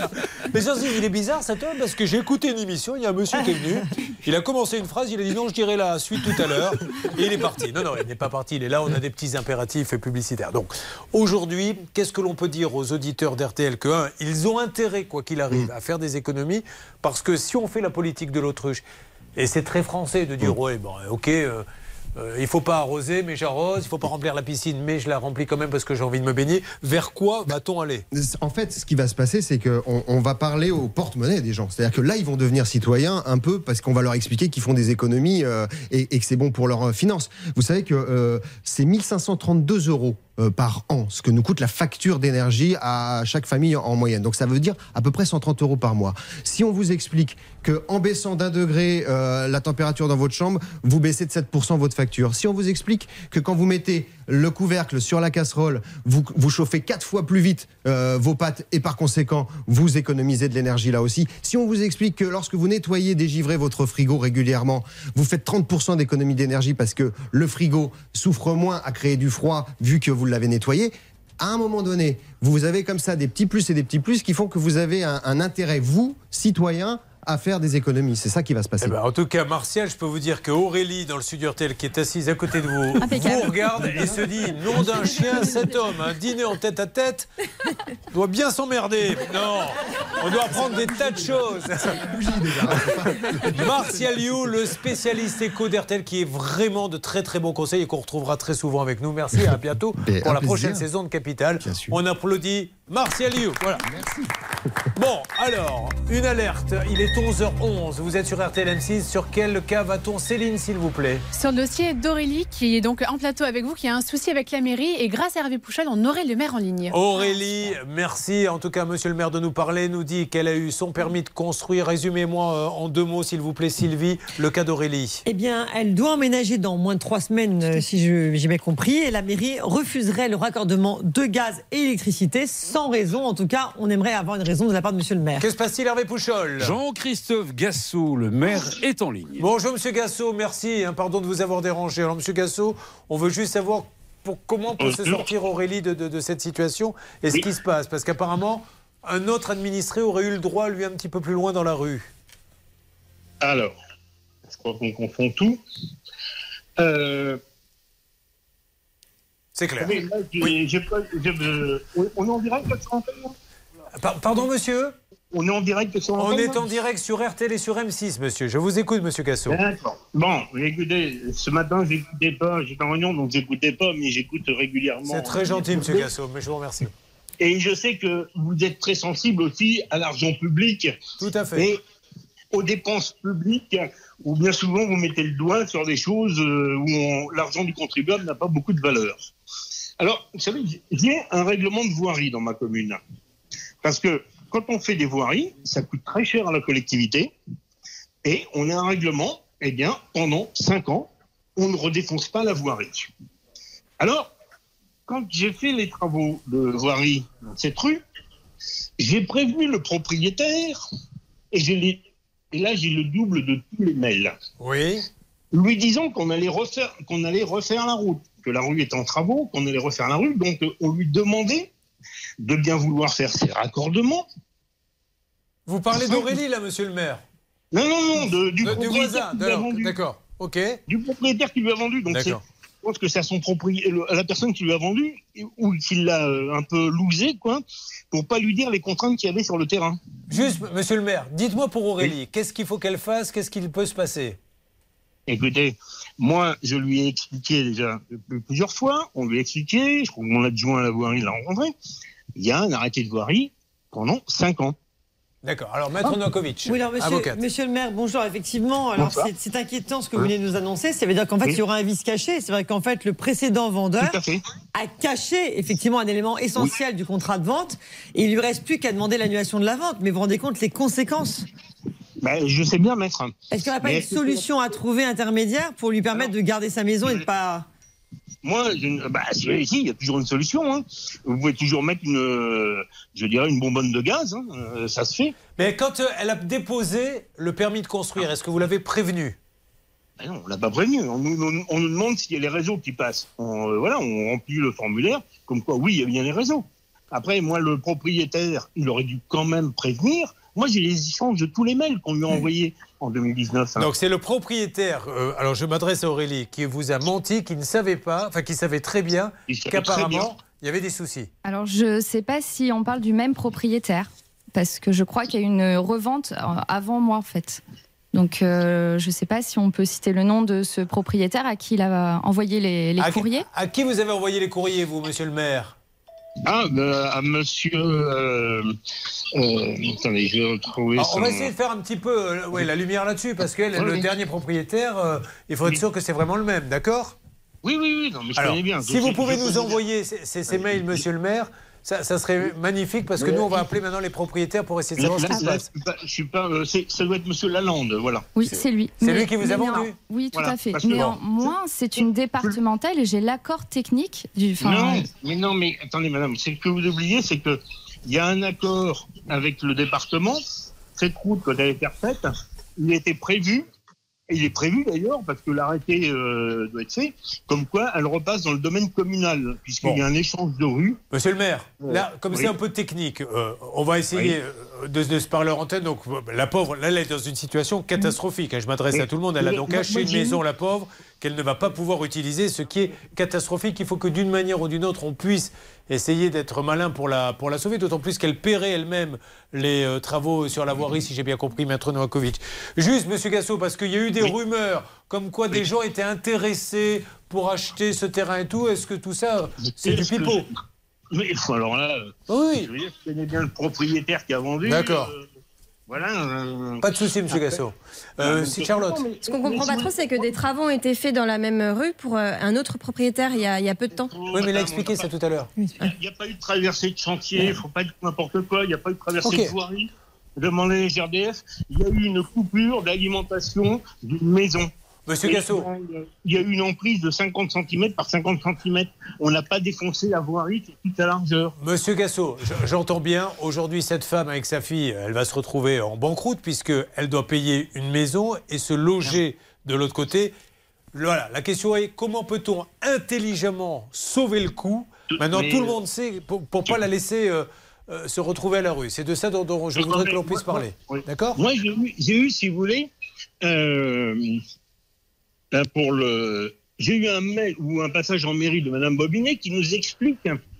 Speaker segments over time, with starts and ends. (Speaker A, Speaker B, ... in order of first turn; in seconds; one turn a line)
Speaker A: 0.5-18.8
Speaker A: 19.4-21.6
Speaker A: 22.2-28.0
Speaker B: 28.1-78.9
Speaker A: 78.8-87.3
Speaker C: 83.0-83.6
Speaker A: 88.1-92.1
Speaker B: 92.0-93.5
Speaker A: 92.7-103.8
Speaker B: 100.0-100.8
Speaker B: 101.6-102.0
Speaker A: 105.0-111.2
Speaker D: 111.3-117.4
Speaker A: 116.9-125.2
Speaker E: 125.2-135.4
Speaker A: 135.4-136.7
Speaker F: 136.6-139.4
Speaker A: 139.4-152.1
Speaker G: 144.8-145.2
Speaker G: 153.4-153.7
Speaker G: 154.5-155.6
Speaker G: 156.8-157.4
Speaker A: 159.6-160.5
Speaker G: 159.8-163.3
Speaker A: 164.0-164.9
Speaker G: 165.3-166.7
Speaker A: 166.2-169.6
Speaker G: 169.5-176.1
Speaker A: 175.1-176.9
Speaker G: 177.4-180.9
Speaker A: 181.2-181.7
Speaker G: 182.5-189.2
Speaker G: 190.0-193.0
Speaker G: 193.8-197.3
Speaker G: 198.2-203.1
Speaker G: 204.0-204.3
Speaker G: 205.1-208.0
Speaker G: 209.0-210.8
Speaker G: 211.5-212.0
Speaker G: 212.5-214.3
Speaker A: 214.6-215.0
Speaker G: 215.5-221.7
Speaker G: 222.4-224.2
Speaker A: 225.7-227.2
Speaker G: 227.7-229.9
Speaker A: 228.6-230.8
Speaker G: 230.9-240.0
Speaker A: 232.1-232.4
Speaker A: 240.3-244.4
Speaker G: 245.3-251.7
Speaker G: 252.4-254.7
Speaker A: 255.4-257.4
Speaker E: 256.6-264.2
Speaker G: 258.9-259.3
Speaker G: 264.0-264.4
Speaker E: 264.7-271.4
Speaker G: 272.2-274.5
Speaker E: 273.5-277.7
Speaker G: 278.4-285.3
Speaker A: 285.6-289.4
Speaker G: 290.2-303.9
Speaker A: 303.8-311.3
Speaker G: 309.5-310.3
Speaker C: 311.4-317.6
Speaker C: 318.1-323.5
Speaker A: 323.0-325.7
Speaker G: 326.4-328.7
Speaker G: 329.3-331.5
Speaker A: 331.0-337.1
Speaker G: 333.7-334.0
Speaker G: 337.6-339.8
Speaker A: 338.4-345.7
Speaker G: 345.0-348.3
Speaker C: 348.3-355.1
Speaker A: 349.0-350.0
Speaker G: 350.3-352.6
Speaker G: 354.6-360.4
Speaker G: 360.9-363.6
Speaker G: 364.3-371.0
Speaker A: 371.1-400.5
Speaker G: 371.9-372.5
Speaker G: 378.9-380.4
Speaker G: 399.7-400.4
Speaker G: 401.1-405.2
Speaker A: 402.3-402.7
Speaker A: 404.6-405.1
Speaker G: 405.9-407.6
Speaker A: 406.8-409.1
Speaker G: 408.2-410.2
Speaker H: 409.3-414.1
Speaker G: 414.0-415.1
Speaker A: 414.3-415.5
Speaker E: 415.6-415.9
Speaker G: 415.8-424.7
Speaker A: 419.2-419.5
Speaker A: 425.1-425.7
Speaker G: 425.2-431.5
Speaker A: 431.6-440.3
Speaker A: 440.9-451.4
Speaker G: 445.1-445.8
Speaker G: 449.8-452.9
Speaker G: 453.4-454.4
Speaker G: 455.5-460.4